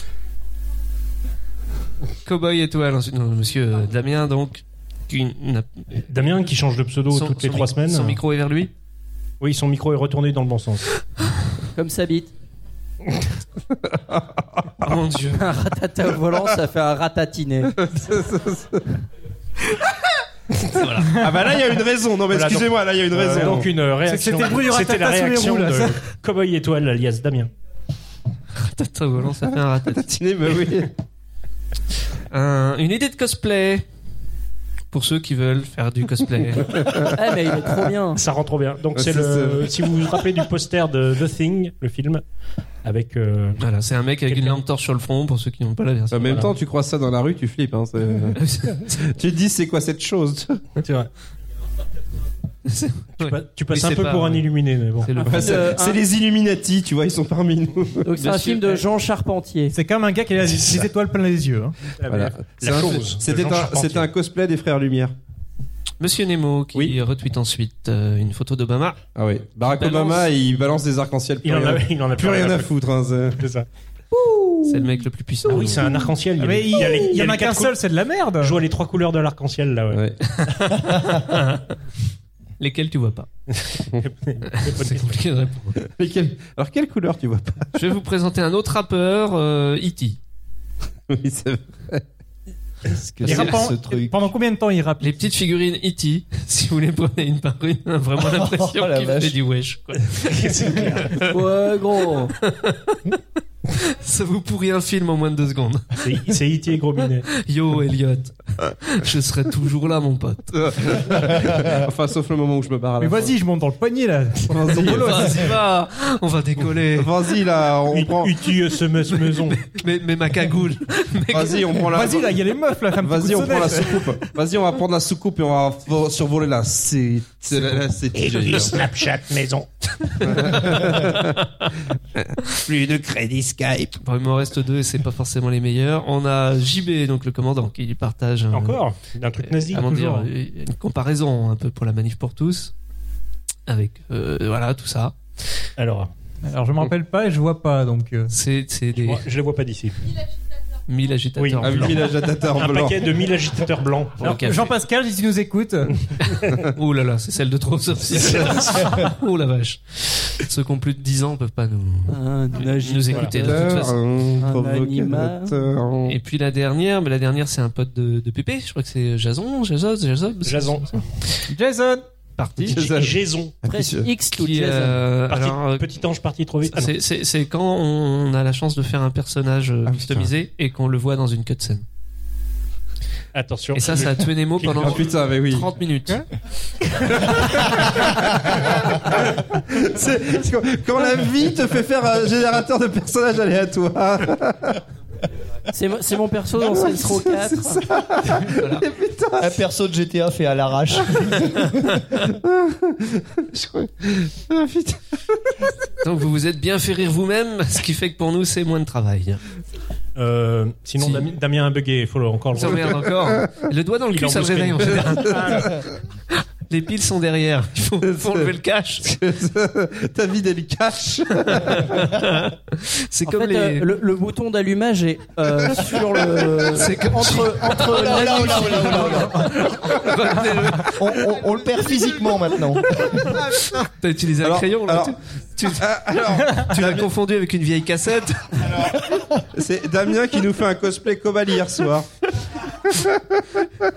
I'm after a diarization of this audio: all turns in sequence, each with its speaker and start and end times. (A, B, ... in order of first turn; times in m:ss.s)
0:02.2-0:05.8 A
0:06.1-0:08.2 B
0:07.1-0:08.7 A
0:09.4-0:10.8 B
0:11.8-0:12.3 C
0:13.9-0:14.8 D
0:14.8-0:15.5 A
0:15.4-0:17.7 C
0:17.8-0:18.9 D
0:20.7-0:21.2 A
0:21.1-0:23.7 D
0:22.3-0:27.5 B
0:24.0-0:26.0 E
0:28.6-0:30.1 A
0:29.9-0:30.9 D
0:32.3-0:33.8 A
0:34.9-0:36.9 A
0:36.8-0:37.1 D
0:37.1-0:38.2 C
0:38.1-0:42.2 B
0:38.9-0:39.8 D
0:42.8-0:43.6 B
0:43.6-0:46.5 A
0:44.3-0:44.6 B
0:46.1-0:50.6 D
0:48.4-0:49.1 A
0:50.8-0:51.1 B
0:52.6-0:54.5 A
0:53.2-0:55.2 B
0:55.0-0:55.7 A
0:55.2-0:56.0 C
0:55.2-0:58.0 D
0:58.0-0:59.7 C
0:58.2-0:58.8 A
0:59.7-1:01.7 E
1:02.0-1:04.1 B
1:02.1-1:05.1 D
1:06.0-1:09.0 A
1:09.2-1:13.4 D
1:09.7-1:10.2 A
1:11.4-1:12.7 B
1:13.4-1:13.6 B
1:14.6-1:15.9 A
1:15.5-1:17.8 B
1:16.4-1:18.6 E
1:18.4-1:20.0 B
1:19.9-1:20.2 D
1:20.4-1:21.6 A
1:22.6-1:23.3 A
1:23.5-1:25.3 B
1:24.6-1:25.8 A
1:25.8-1:27.8 D
1:27.7-1:30.2 A
1:31.1-1:32.0 D
1:32.9-1:34.3 F
1:33.2-1:35.3 E
1:33.3-1:33.6 A
1:35.0-1:41.4 A
1:38.2-1:39.4 F
1:40.1-1:41.2 B
1:41.2-1:42.3 C
1:42.4-1:43.0 A
1:43.8-1:46.0 A
1:46.0-1:47.2 B
1:47.3-1:51.5 A
1:50.8-1:53.3 D
1:53.0-1:55.5 E
1:54.5-1:55.4 D
1:54.7-1:57.1 A
1:56.9-1:58.4 D
1:57.9-1:59.6 B
1:59.1-2:01.8 A
2:01.3-2:02.4 D
2:01.9-2:04.1 E
2:03.0-2:08.8 D
2:08.2-2:10.7 B
2:10.2-2:11.3 D
2:10.4-2:11.0 A
2:12.2-2:14.0 D
2:14.0-2:18.8 A
2:18.5-2:20.1 B
2:19.4-2:22.7 A
2:19.8-2:20.2 E
2:23.7-2:25.2 A
2:25.8-2:26.1 B
2:26.4-2:28.3 E
2:28.3-2:29.2 A
2:28.9-2:30.0 B
2:30.9-2:32.1 A
2:31.4-2:32.0 B
2:31.6-2:33.1 D
2:32.5-2:34.6 B
2:34.2-2:34.7 A
2:34.3-2:36.0 E
2:36.2-2:44.0 A
2:42.1-2:43.7 C
2:43.3-2:46.2 D
2:44.4-2:45.6 C
2:46.0-2:51.0 A
2:50.4-2:51.0 B
2:51.5-2:52.0 E
2:52.4-2:52.9 A
2:52.6-2:54.1 D
2:52.7-2:53.6 B
2:53.6-2:55.0 C
2:54.3-2:56.0 A
2:55.2-2:56.9 B
2:56.6-3:01.8 A
2:59.9-3:00.3 D
3:03.3-3:05.1 B
3:03.7-3:06.2 A
3:04.8-3:05.7 D
3:07.2-3:07.9 A
3:07.2-3:14.8 D
3:15.7-3:17.8 C
3:16.6-3:19.6 D
3:18.6-3:18.8 A
3:19.4-3:22.0 F
3:22.4-3:25.5 D
3:26.0-3:29.4 A
3:30.2-3:33.0 B
3:31.0-3:31.3 A
3:32.5-3:35.8 A
3:32.8-3:33.5 D
3:34.1-3:35.7 B
3:35.1-3:35.8 D
3:36.7-3:39.1 A
3:38.0-3:42.0 D
3:41.5-3:43.9 A
3:43.2-3:49.4 C
3:46.7-3:51.3 A
3:47.8-3:49.6 F
3:50.9-3:53.3 F
3:53.9-3:55.9 A
3:54.4-3:55.2 D
3:55.7-3:57.1 D
3:56.6-3:58.9 A
3:59.5-4:02.1 D
4:02.9-4:03.4 D